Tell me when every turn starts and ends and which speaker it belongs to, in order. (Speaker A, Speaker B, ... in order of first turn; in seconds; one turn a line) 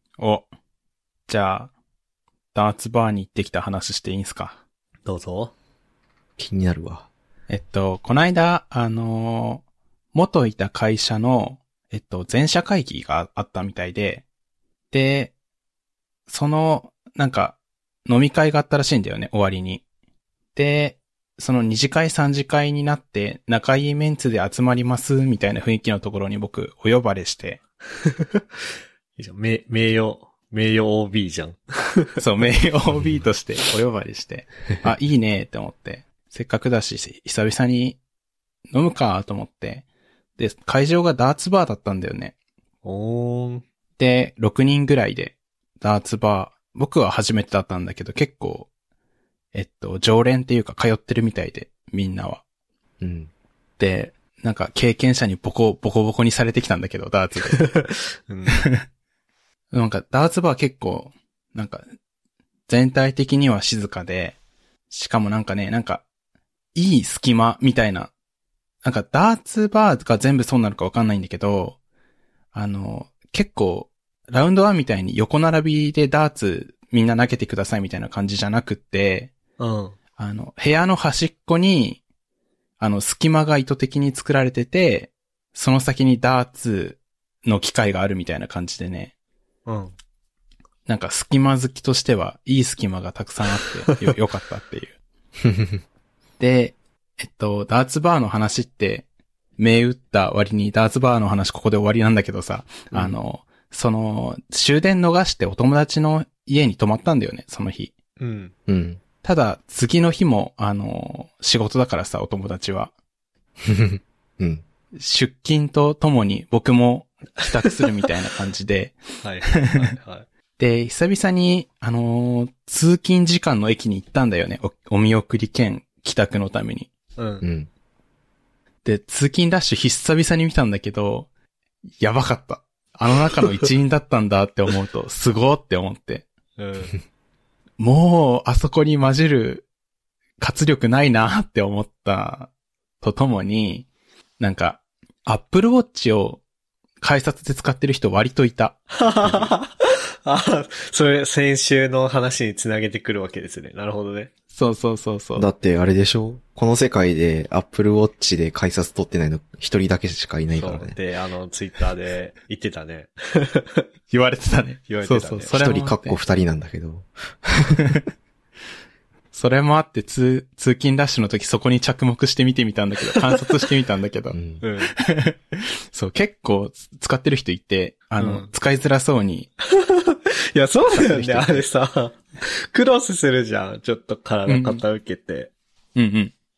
Speaker A: 0.2-0.5
Speaker A: 1.3-1.7
Speaker A: 2.5-4.6
Speaker B: 5.1-5.5
Speaker C: 6.4-7.1
Speaker A: 7.5-14.2
Speaker A: 14.9-15.3
Speaker A: 16.3-19.8
Speaker A: 20.6-27.6
Speaker B: 28.1-28.4
Speaker B: 29.2-32.2
Speaker A: 32.2-38.0
Speaker A: 38.7-39.9
Speaker A: 40.4-42.4
Speaker B: 42.8-43.6
Speaker A: 44.0-48.7
Speaker A: 49.5-52.4
Speaker C: 53.0-53.3
Speaker A: 53.8-57.7
Speaker B: 57.5-58.6
Speaker A: 59.7-61.8
Speaker A: 62.7-64.4
Speaker A: 64.9-66.0
Speaker A: 66.8-68.1
Speaker A: 68.8-71.8
Speaker A: 72.5-79.3
Speaker B: 79.6-80.0
Speaker A: 80.2-82.0
Speaker A: 82.8-89.1
Speaker B: 89.7-89.9
Speaker A: 90.9-94.9
Speaker C: 95.4-95.8
Speaker A: 96.4-99.0
Speaker A: 99.6-107.9
Speaker B: 108.2-108.5
Speaker C: 108.7-109.0
Speaker A: 109.2-112.9
Speaker C: 113.6-114.6
Speaker A: 115.0-119.0
Speaker B: 119.2-120.3
Speaker A: 119.5-119.8
Speaker A: 120.6-126.9
Speaker B: 127.2-127.5
Speaker C: 127.4-127.7
Speaker A: 128.8-131.3
Speaker A: 132.0-136.3
Speaker B: 136.6-136.9
Speaker A: 137.8-139.7
Speaker A: 140.4-142.5
Speaker A: 143.0-143.9
Speaker A: 144.4-146.4
Speaker A: 147.0-149.5
Speaker B: 148.9-149.7
Speaker B: 150.2-154.3
Speaker A: 154.5-155.5
Speaker C: 155.4-161.0
Speaker B: 160.5-163.8
Speaker A: 164.1-166.2
Speaker B: 164.9-165.5
Speaker C: 165.5-168.0
Speaker A: 169.3-174.4
Speaker B: 173.1-173.4
Speaker C: 174.3-174.6
Speaker B: 174.6-174.9
Speaker A: 175.0-179.5
Speaker B: 178.2-178.5
Speaker B: 179.7-185.5
Speaker A: 181.2-181.4
Speaker A: 184.5-184.8
Speaker A: 186.0-186.3